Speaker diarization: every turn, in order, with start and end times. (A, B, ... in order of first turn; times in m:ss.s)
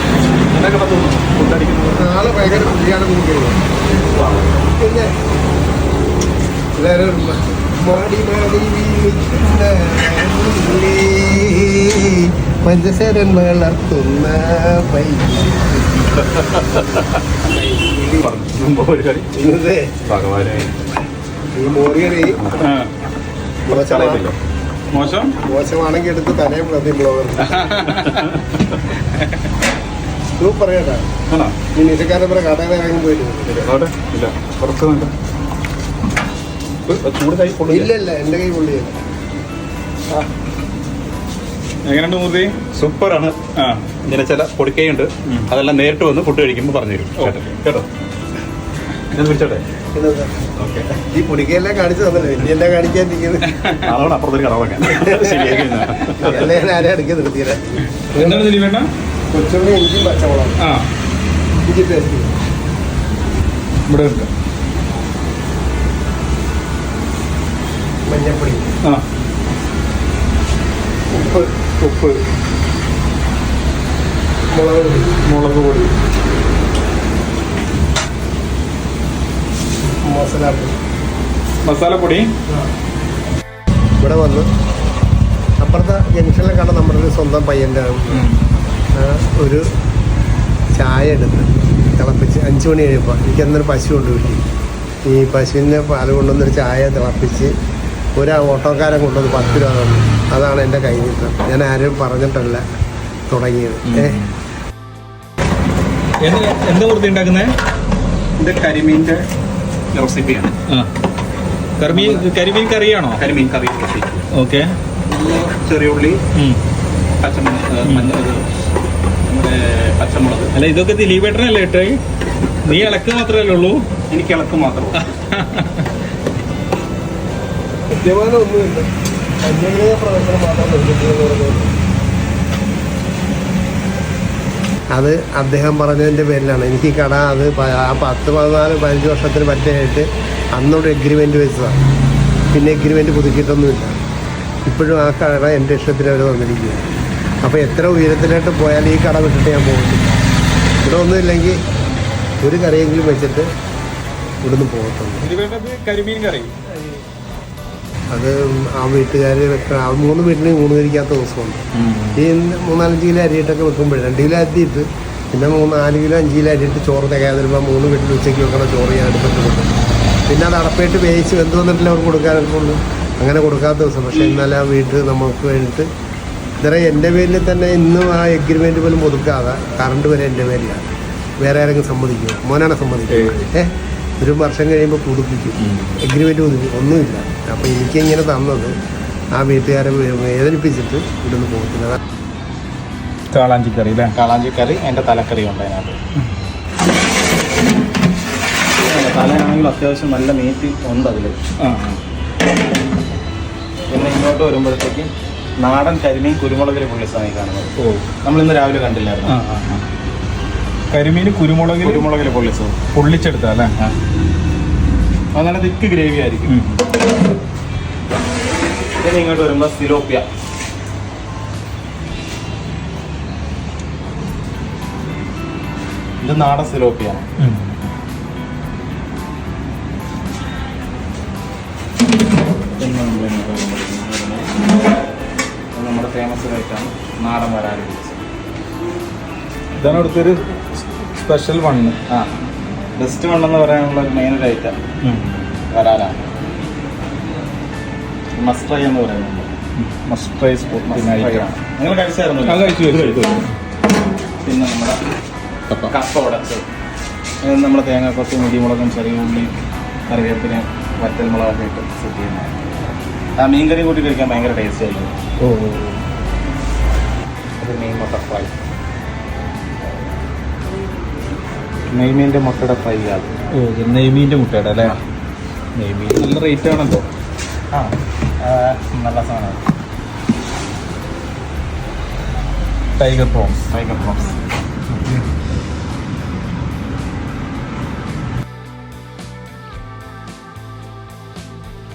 0:00.5-0:02.7 A
0:01.9-0:03.6 B
0:03.9-0:04.6 A
0:04.6-0:05.1 B
0:06.8-0:15.8 B
0:16.0-0:17.3 A
0:16.4-0:18.0 B
0:17.8-0:19.3 A
0:19.3-0:20.0 B
0:20.0-0:20.7 A
0:21.5-0:22.5 B
0:22.6-0:22.8 A
0:23.7-0:24.4 A
0:23.7-0:24.3 B
0:24.9-0:25.4 C
0:25.4-0:27.7 B
0:27.4-0:28.4 C
0:27.8-0:28.8 A
0:30.4-0:31.1 B
0:31.3-0:31.6 A
0:31.7-0:33.7 B
0:33.5-0:35.1 A
0:36.9-0:37.9 A
0:37.6-0:39.0 B
0:41.9-0:42.6 C
0:42.7-0:43.4 A
0:43.6-0:43.9 C
0:44.0-0:47.9 A
0:49.1-0:49.6 A
0:49.9-0:50.4 B
0:50.6-0:50.9 A
0:51.1-0:53.8 B
0:53.7-0:56.6 A
0:55.0-0:55.4 B
0:56.2-0:58.5 B
0:58.1-0:58.9 C
0:59.3-1:00.6 B
1:00.6-1:00.9 C
1:01.6-1:02.3 B
1:03.9-1:04.3 C
1:08.1-1:08.7 B
1:11.2-1:11.4 B
1:11.2-1:12.2 C
1:14.5-1:15.2 B
1:15.2-1:15.9 C
1:20.0-1:20.8 B
1:21.6-1:22.3 C
1:24.0-1:24.5 B
1:25.6-1:28.2 B
1:28.1-1:28.4 C
1:29.0-1:29.6 B
1:30.8-1:34.4 B
1:35.1-1:37.5 B
1:38.2-1:42.6 B
1:43.3-1:44.2 B
1:43.9-1:44.3 C
1:46.2-1:47.5 C
1:48.4-1:49.2 A
1:49.9-1:50.6 A
1:51.8-1:53.2 C
1:51.9-1:52.3 A
1:53.2-1:54.3 A
1:54.3-1:54.7 C
1:55.1-1:56.2 A
1:56.4-1:56.6 C
1:57.2-1:58.4 A
1:57.8-1:58.1 C
1:59.3-2:00.5 A
2:00.6-2:02.0 C
2:02.6-2:03.8 C
2:04.1-2:05.0 A
2:04.9-2:05.8 C
2:07.9-2:08.9 B
2:09.4-2:11.7 B
2:14.9-2:21.8 B
2:22.5-2:24.0 B
2:24.6-2:26.9 B
2:27.4-2:30.2 B
2:30.8-2:31.6 B
2:32.4-2:33.5 B
2:34.4-2:35.3 B
2:35.2-2:36.5 C
2:36.7-2:37.0 B
2:38.1-2:41.6 B
2:41.8-2:42.1 A
2:42.2-2:49.7 B
2:50.3-2:55.9 B
2:56.6-3:00.9 B
3:01.4-3:08.8 B
3:03.1-3:03.5 C
3:05.6-3:06.0 C
3:09.4-3:12.0 B
3:13.3-3:14.2 C
3:14.2-3:16.0 A
3:18.8-3:21.4 A
3:21.6-3:22.0 C
3:23.9-3:29.4 A
3:27.8-3:28.1 C
3:29.2-3:29.8 C
3:30.9-3:32.1 C
3:31.8-3:32.8 A
3:32.9-3:33.7 C
3:35.3-3:36.6 A
3:36.5-3:36.8 C
3:39.0-3:40.3 A
3:46.2-3:47.3 A
3:47.4-3:47.8 C
3:52.8-3:54.5 A
3:55.8-3:58.2 A
3:59.8-4:02.0 C
4:02.1-4:02.4 A
4:03.0-4:04.8 A
4:05.0-4:05.5 C
4:05.7-4:06.2 A
4:08.4-4:09.5 A
4:09.8-4:11.5 C
4:10.8-4:13.4 A
4:12.4-4:13.5 C
4:14.4-4:15.0 A
4:15.7-4:16.7 A
4:17.4-4:19.6 A
4:20.1-4:22.7 A
4:23.4-4:25.1 A
4:25.4-4:26.0 C
4:27.6-4:28.5 A
4:31.9-4:33.3 A
4:33.5-4:35.0 C
4:35.8-4:36.2 A
4:36.1-4:37.1 C
4:37.7-4:39.6 A
4:43.0-4:43.7 C
4:43.7-4:44.4 A
4:44.9-4:45.2 C